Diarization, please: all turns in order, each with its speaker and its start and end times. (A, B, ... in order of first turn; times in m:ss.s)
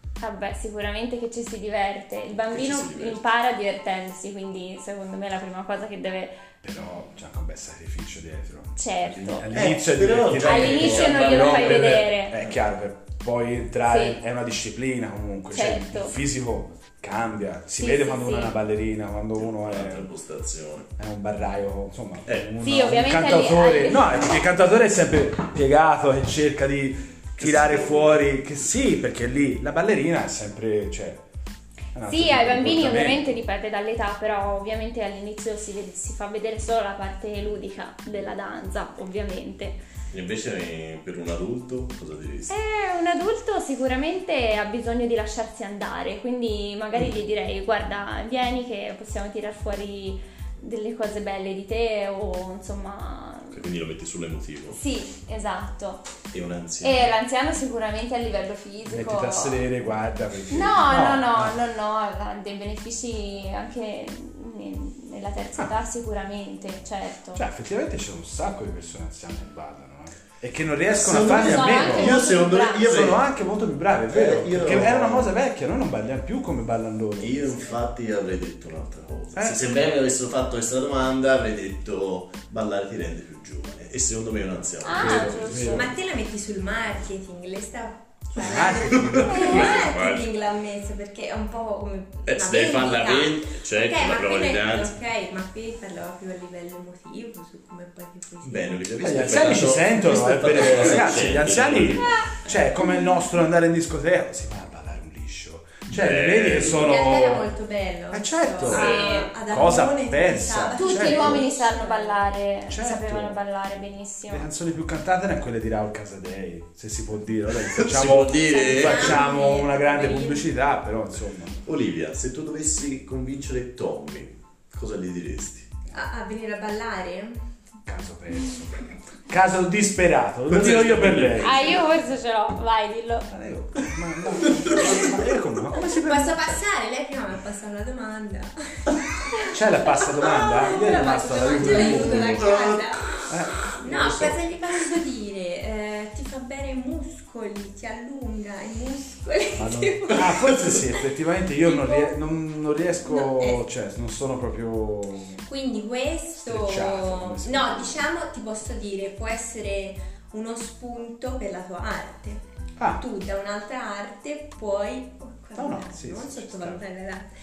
0:00.2-0:06.4 A
0:02.5-0:03.2 B
0:06.6-0:20.1 C
0:08.7-0:09.5 A
0:09.5-0:12.5 B
0:10.4-0:12.4 A
0:13.8-0:14.2 A
0:15.5-0:16.1 A
0:17.8-0:18.6 A
0:19.4-0:20.9 B
0:21.0-0:31.2 C
0:22.2-0:22.5 B
0:22.6-0:24.3 A
0:27.4-0:28.6 B
0:31.9-0:33.4 C
0:32.0-0:39.8 A
0:40.1-0:42.5 B
0:42.5-0:53.6 A
0:53.5-0:54.8 B
0:54.7-0:56.0 A
0:56.3-0:57.1 B
0:56.8-0:59.6 A
0:58.9-1:01.6 C
1:00.5-1:07.4 A
1:07.3-1:17.6 C
1:10.9-1:13.2 B
1:11.3-1:12.8 A
1:14.1-1:15.3 B
1:17.2-1:25.8 B
1:19.3-1:19.6 C
1:24.8-1:25.9 A
1:24.9-1:26.0 C
1:25.7-1:39.4 D
1:28.4-1:29.8 C
1:28.6-1:30.3 B
1:32.2-1:34.9 B
1:38.4-1:42.0 B
1:39.0-1:47.5 C
1:40.5-1:41.3 D
1:45.9-1:46.9 B
1:46.6-1:52.2 D
1:48.1-1:51.4 C
1:48.7-1:49.3 A
1:50.8-1:54.5 A
1:52.7-1:53.4 C
1:54.3-2:01.6 C
1:57.6-1:59.2 B
1:58.4-2:00.5 D
2:01.6-2:05.7 B
2:05.9-2:07.4 D
2:07.8-2:11.8 C
2:10.5-2:11.8 B
2:11.4-2:13.3 A
2:13.3-2:16.6 C
2:14.4-2:15.2 B
2:14.8-2:15.1 D
2:15.7-2:18.5 D
2:19.0-2:23.2 D
2:19.5-2:22.4 C
2:21.4-2:24.4 B
2:23.3-2:23.7 C
2:23.8-2:31.0 D
2:29.6-2:35.4 C
2:31.6-2:32.1 D
2:33.0-2:33.6 D
2:35.4-2:42.4 D
2:36.4-2:38.0 C
2:42.8-2:43.0 C
2:43.0-2:47.3 D
2:45.6-2:46.8 C